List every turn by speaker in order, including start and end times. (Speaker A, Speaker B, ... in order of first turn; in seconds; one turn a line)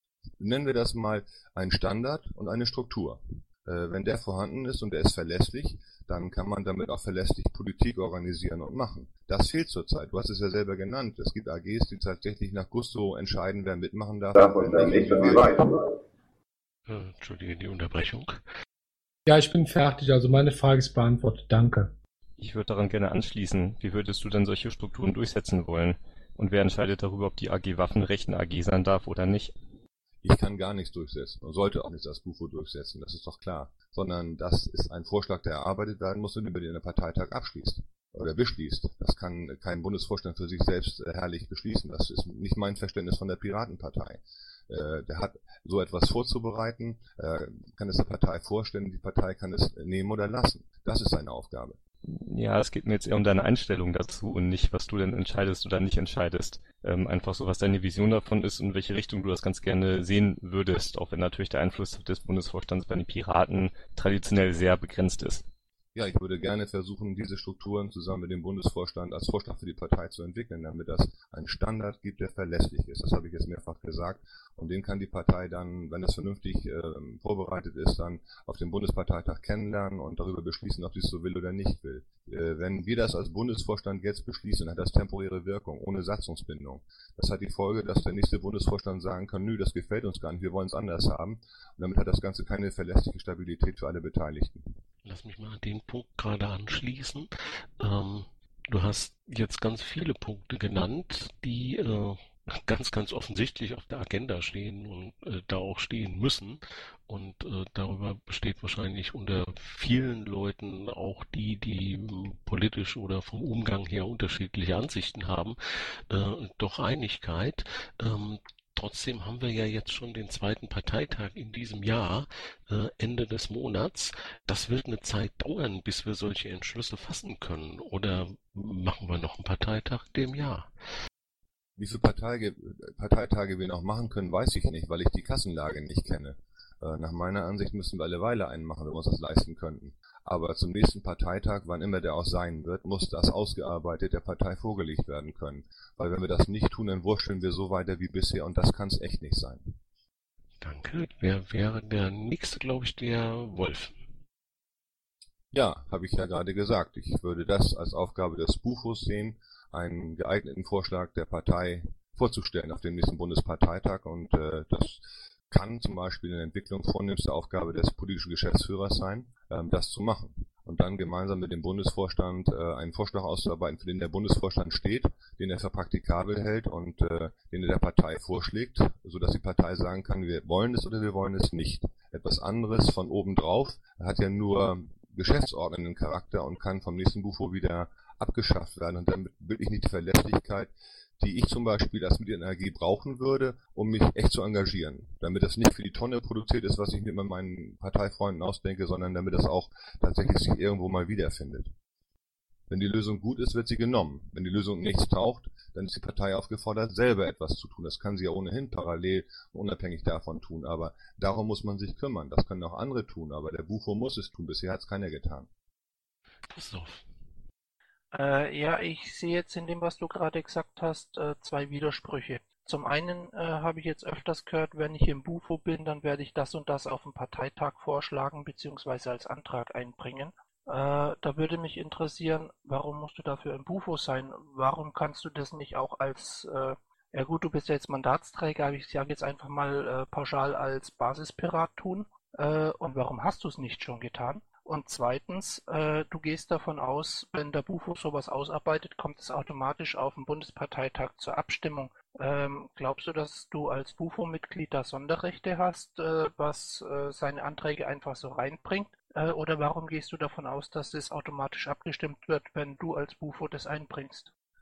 Speaker A: 0.4-15.6
Speaker B: 16.9-18.4
Speaker C: 19.2-21.9
Speaker D: 22.4-29.5
Speaker A: 30.2-51.8
Speaker D: 52.1-65.4
Speaker A: 65.9-94.7
Speaker B: 95.0-115.6
Speaker B: 116.1-130.7
Speaker A: 131.8-149.8
Speaker B: 150.6-153.9
Speaker A: 155.5-201.7
Speaker A: 202.7-215.5
Speaker B: 216.5-217.0
Speaker E: 218.1-264.3